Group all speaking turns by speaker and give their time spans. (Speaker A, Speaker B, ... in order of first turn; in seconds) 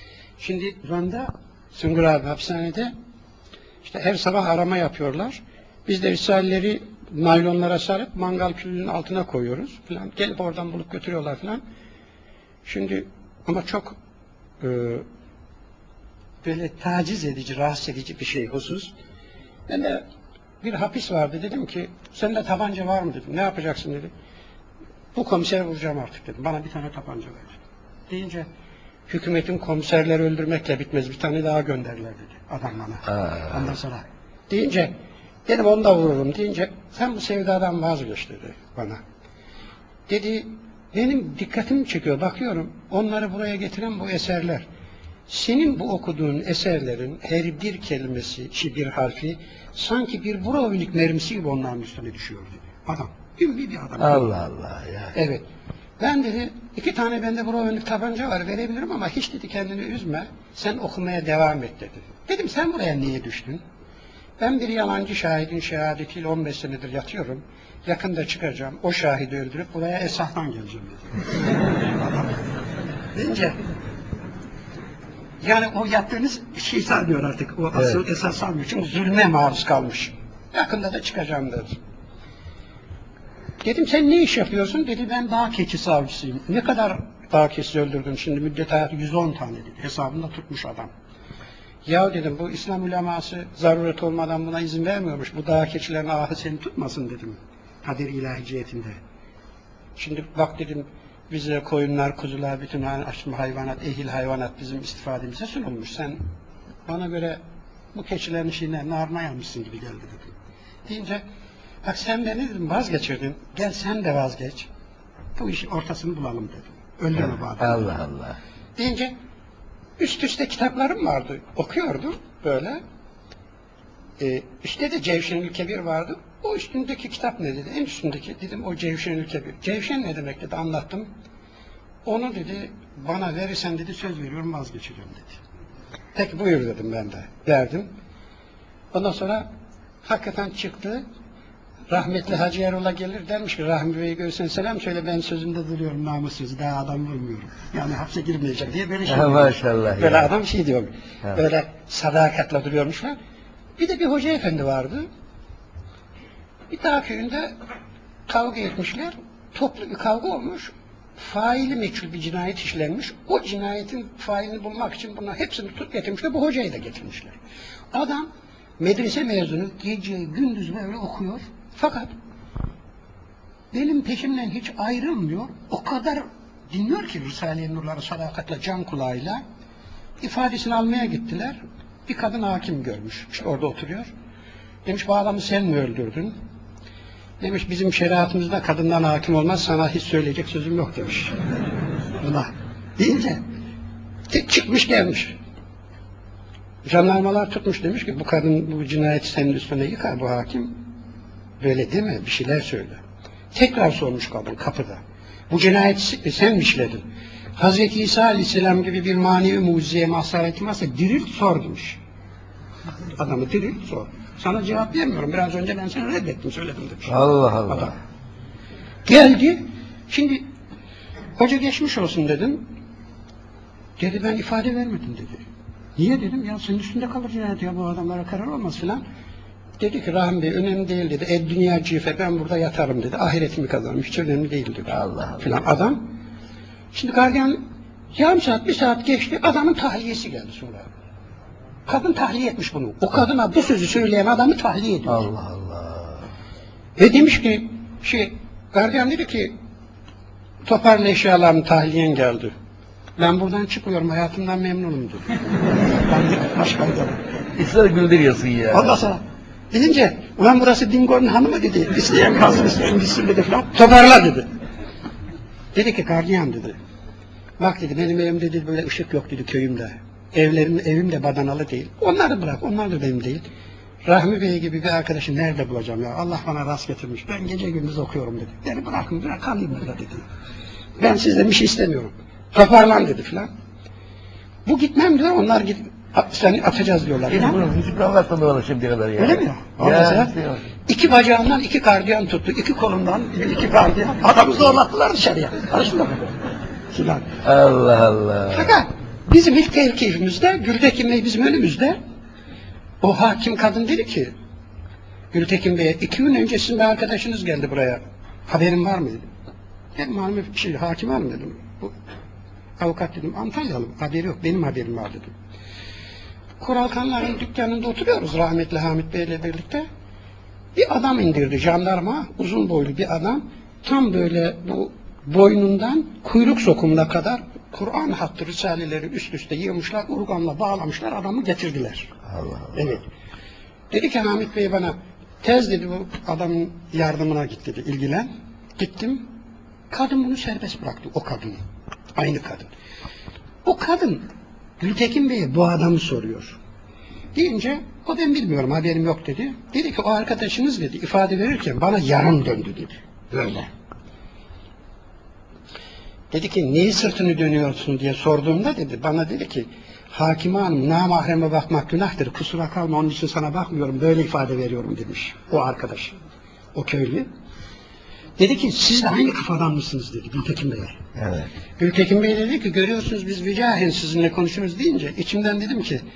Speaker A: 0.4-2.9, 3.8-11.6, 12.6-13.9, 14.6-15.0, 16.4-18.9, 19.7-20.0, 20.6-24.1, 25.1-27.6, 28.1-28.5, 29.1-34.9, 35.5-39.0, 40.1-44.6, 45.3-54.3, 55.1-55.4, 56.0-63.6, 64.4-71.1, 71.8-72.4, 73.1-73.6, 75.4-81.7, 83.6-90.9, 91.8-99.0, 100.0-106.2, 106.9-107.4, 107.9-110.3, 110.8-111.2, 111.8-114.7, 115.4-117.9, 118.8-119.1, 120.0-122.8, 124.2-131.1, 132.0-135.4, 136.2-137.9, 138.9-139.4, 140.0-141.0, 141.9-153.2, 153.8-155.1, 156.7-157.5, 158.3-167.4, 167.9-168.3, 168.8-172.1, 173.7-179.4, 180.2-184.1, 184.8-186.3, 187.4-191.3, 192.2-193.4, 194.3-195.3, 196.8-200.7, 201.6-203.0, 203.5-207.0, 207.6-212.0, 213.2-217.9, 219.1-220.4, 221.4-222.6, 224.0-225.4, 226.0-229.0, 229.8-236.1, 236.9-237.6, 238.1-240.9, 241.9-245.3, 247.0-249.5, 250.7-252.5, 253.2-255.2, 256.0-257.2, 258.7-259.2, 259.7-264.5, 265.7-266.8, 267.6-273.4, 274.1-280.2, 281.0-283.5, 284.6-287.6, 289.2-290.4, 290.9-296.3, 296.9-297.3, 298.5-302.0, 303.0-304.3, 305.3-309.2, 309.9-311.9, 312.8-315.3, 316.6-319.8, 320.7-332.1, 332.7-333.1, 333.9-339.2, 339.9-341.6, 342.1-342.7, 343.6-344.2, 344.8-346.6, 347.3-353.7, 356.3-366.1, 366.7-367.3, 368.4-371.0, 371.8-376.0
Speaker B: 54.0-55.1, 117.6-118.4, 149.1-150.3, 217.1-217.9, 234.9-235.4, 245.1-246.3, 257.6-258.9, 287.3-290.6, 297.4-298.8, 332.3-332.8, 371.2-371.5